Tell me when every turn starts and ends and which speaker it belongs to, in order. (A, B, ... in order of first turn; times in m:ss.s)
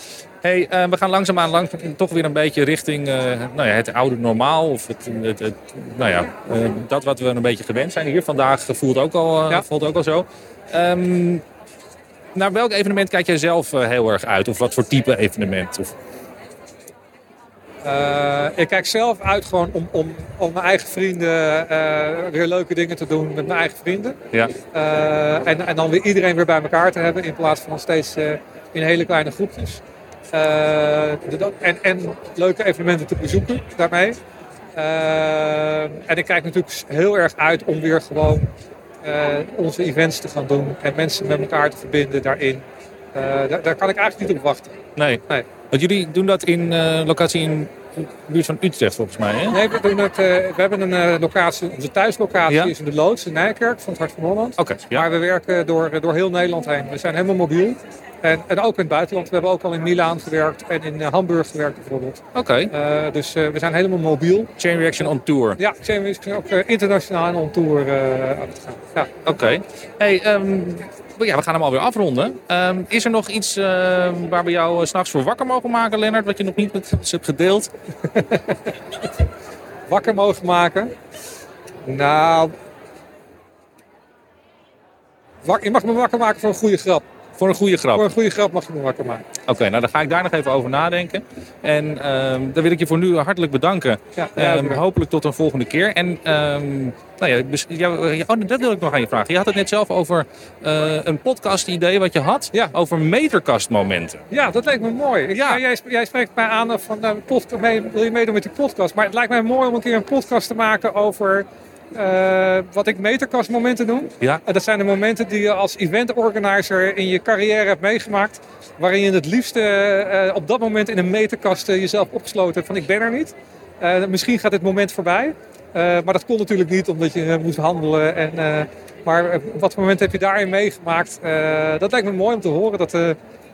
0:00.4-0:11.4 A
0:12.3-0:15.9 A
0:17.8-0:34.2 B
0:34.8-0:38.5 B
0:39.0-0:45.5 B
0:45.0-0:49.6 A
0:49.5-1:04.5 B
0:54.6-0:55.0 A
1:02.3-1:02.7 A
1:04.6-1:05.6 A
1:05.6-1:09.1 B
1:09.2-1:17.7 A
1:18.1-1:18.7 B
1:19.9-1:20.9 B
1:21.8-1:22.5 B
1:25.4-1:27.0 B
1:27.4-1:28.1 A
1:27.9-1:29.2 B
1:29.4-1:44.2 A
1:34.2-1:34.8 B
1:44.3-2:13.2 B
1:45.3-1:45.6 A